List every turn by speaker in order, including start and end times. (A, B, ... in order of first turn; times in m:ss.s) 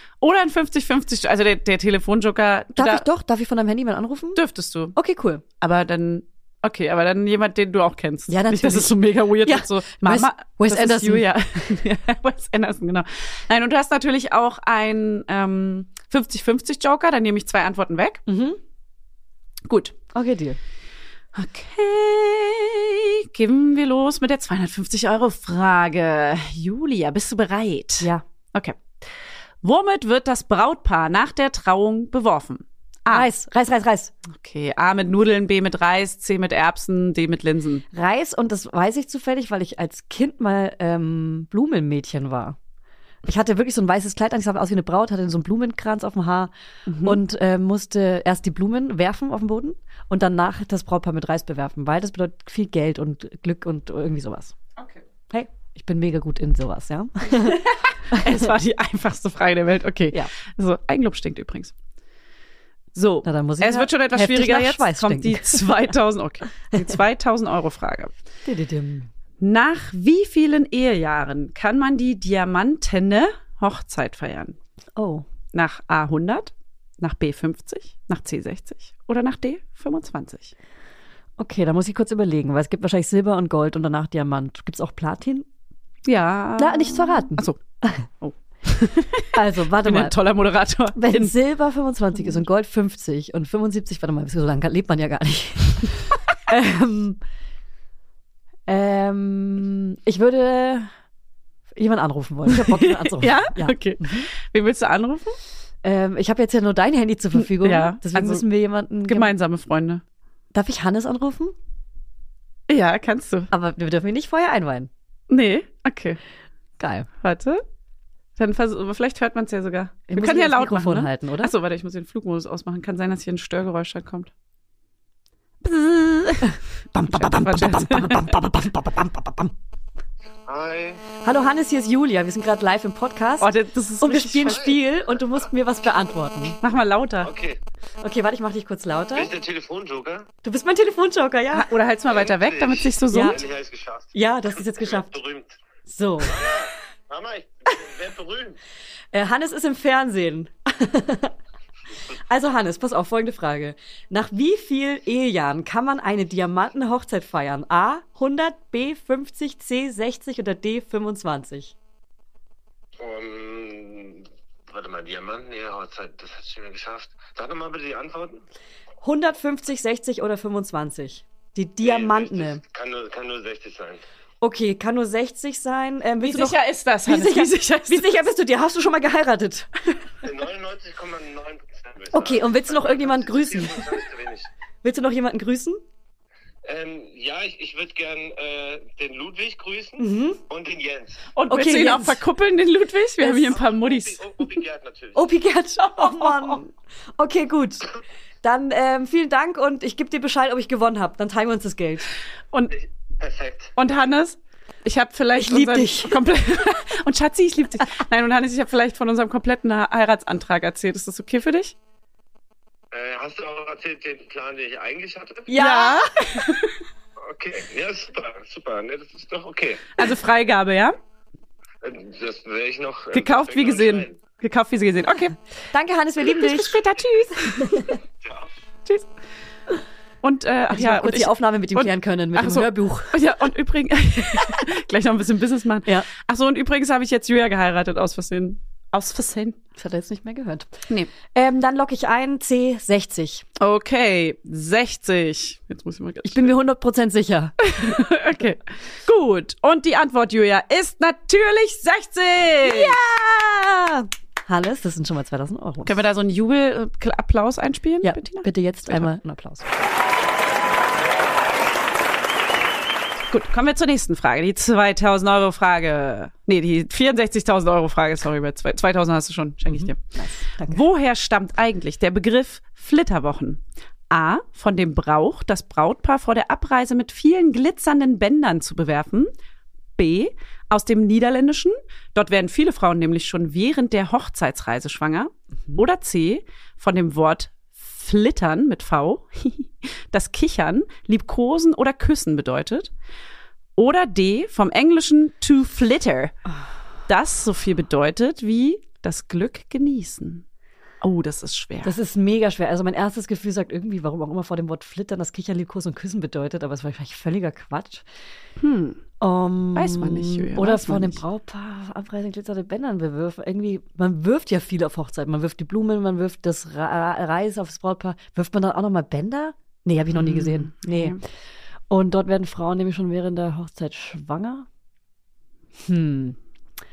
0:00.2-0:03.0 A
0:02.8-0:04.4 B
0:04.3-0:04.9 A
0:04.9-0:05.4 B
0:05.6-0:18.2 A
0:08.3-0:11.8 B
0:18.3-0:18.6 B
0:19.7-0:19.9 A
0:20.1-0:20.6 B
0:21.3-0:28.8 A
0:29.6-0:33.3 A
0:33.1-0:34.1 B
0:34.3-0:37.8 A
0:37.9-0:42.6 B
0:43.2-0:46.5 B
0:46.9-0:47.2 A
0:47.0-0:54.5 B
0:55.3-0:58.5 B
0:57.4-1:01.7 A
1:02.9-1:08.1 A
1:03.2-1:05.9 B
1:08.4-1:09.1 B
1:09.4-1:14.6 A
1:15.0-1:15.2 B
1:15.5-1:20.5 A
1:21.4-1:25.4 B
1:26.0-1:27.6 A
1:26.6-1:28.1 B
1:28.2-1:31.3 A
1:29.3-1:30.2 B
1:30.9-1:37.2 B
1:38.7-1:40.9 B
1:41.7-1:44.3 B
1:42.5-1:45.4 A
1:45.8-1:49.3 B
1:47.4-1:48.4 A
1:49.1-1:50.0 A
1:50.5-1:51.5 B
1:52.7-1:53.5 A
1:53.5-1:54.9 B
1:55.3-1:56.2 A
1:56.8-1:57.1 B
1:57.2-1:57.6 A
1:58.4-2:04.3 A
2:00.1-2:01.5 B
2:05.6-2:08.3 A
2:06.9-2:09.5 B
2:10.5-2:11.0 C
2:11.2-2:16.6 B
2:13.4-2:14.7 A
2:14.5-2:14.8 C
2:16.6-2:17.3 A
2:17.2-2:17.6 C
2:18.0-2:19.3 B
2:19.1-2:20.3 C
2:20.4-2:21.7 B
2:21.5-2:23.4 A
2:22.0-2:25.6 C
2:23.1-2:23.4 B
2:24.1-2:25.1 B
2:25.8-2:26.4 B
2:26.2-2:28.6 C
2:29.1-2:31.3 B
2:32.1-2:41.7 B
2:43.0-2:48.4 C
2:49.0-2:52.6 B
2:51.8-2:54.0 C
2:54.4-2:59.7 B
2:56.2-2:58.1 A
3:00.2-3:04.5 C
3:02.1-3:04.0 B
3:04.8-3:05.8 B
3:06.6-3:11.2 C
3:10.0-3:10.4 B
3:11.3-3:14.3 A
3:11.5-3:12.2 B
3:13.2-3:13.5 B
3:13.3-3:15.3 C
3:15.1-3:17.9 B
3:15.8-3:16.6 A
3:18.4-3:22.1 B
3:23.2-3:23.7 C
3:23.8-3:31.7 A
3:25.4-3:26.2 B
3:32.9-3:35.5 C
3:35.5-3:36.5 B
3:35.5-3:36.7 A
3:37.3-3:39.9 C
3:40.0-3:40.9 A
3:41.8-3:44.2 C
3:43.1-3:45.4 A
3:45.7-3:46.8 B
3:46.2-3:48.0 A
3:47.6-3:47.9 B
3:50.2-3:59.6 A
3:50.7-3:53.2 B
3:54.4-3:54.6 B
3:59.8-4:03.4 B
4:03.6-4:06.5 A
4:06.2-4:08.1 B
4:07.6-4:13.0 A
4:12.6-4:16.0 B
4:15.8-4:19.1 A
4:18.0-4:19.6 B
4:23.3-4:30.0 A
4:29.7-4:30.8 B
4:30.6-4:39.3 A
4:40.0-4:52.9 A
4:53.8-4:56.3 A
4:57.1-5:00.4 A
5:01.0-5:02.0 A
5:01.8-5:08.0 B
5:08.6-5:09.0 A
5:09.2-5:21.2 B
5:09.7-5:11.2 A
5:20.1-5:21.2 A
5:21.9-5:24.7 B
5:25.8-5:26.4 B